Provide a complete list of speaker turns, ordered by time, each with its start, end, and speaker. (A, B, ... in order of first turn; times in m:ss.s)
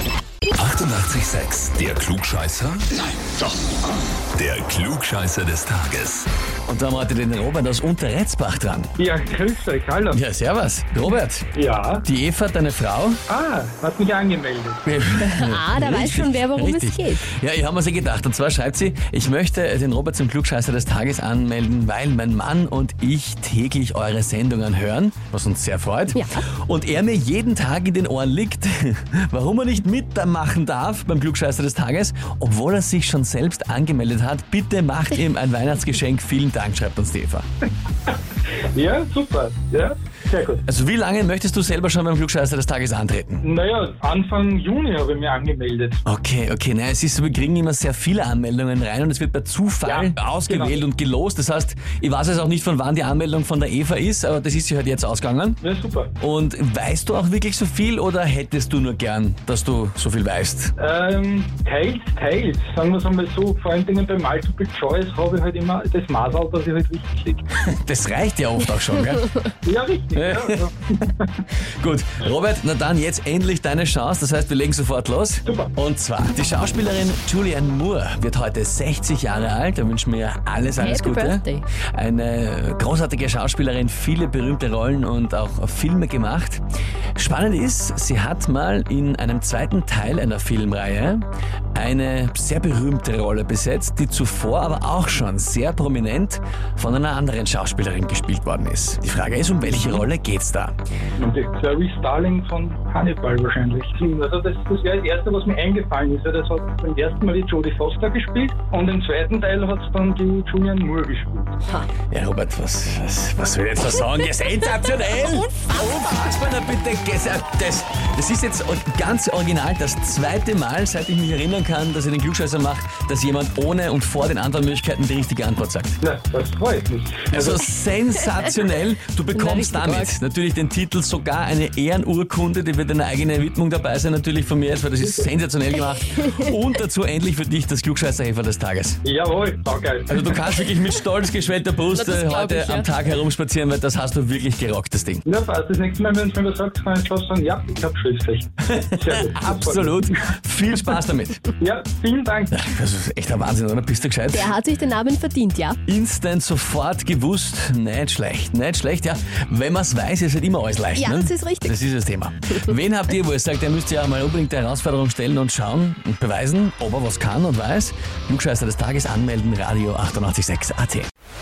0:00.5-0:02.9 A
0:04.3-0:06.3 A
0:06.7-0:08.9 B
0:09.0-0:10.2 C
0:10.1-0:11.5 B
0:11.5-0:12.0 C
0:12.0-0:13.2 B
0:13.3-0:14.9 C
0:14.9-0:37.4 B
0:15.2-0:17.2 D
0:38.5-0:40.6 C
0:40.6-0:43.4 B
0:43.4-0:46.0 C
0:46.0-0:55.6 B
0:49.8-0:50.8 C
0:55.6-0:56.1 C
0:56.2-1:00.7 B
1:00.8-1:07.4 C
1:07.6-1:09.3 B
1:09.6-1:11.2 C
1:10.1-1:10.7 B
1:11.6-1:26.6 B
1:15.4-1:15.7 C
1:20.8-1:21.7 D
1:27.2-1:40.7 B
1:41.2-1:51.6 C
1:52.1-2:06.0 B
2:06.0-2:07.6 C
2:07.3-2:19.0 B
2:09.3-2:10.1 D
2:15.0-2:15.3 C
2:19.0-2:20.4 C
2:20.1-2:25.3 B
2:21.9-2:22.9 D
2:25.3-2:30.2 C
2:28.6-2:31.4 B
2:31.6-2:32.6 C
2:32.5-2:34.5 B
2:34.3-2:35.8 D
2:35.9-2:51.1 B
2:41.0-2:41.7 D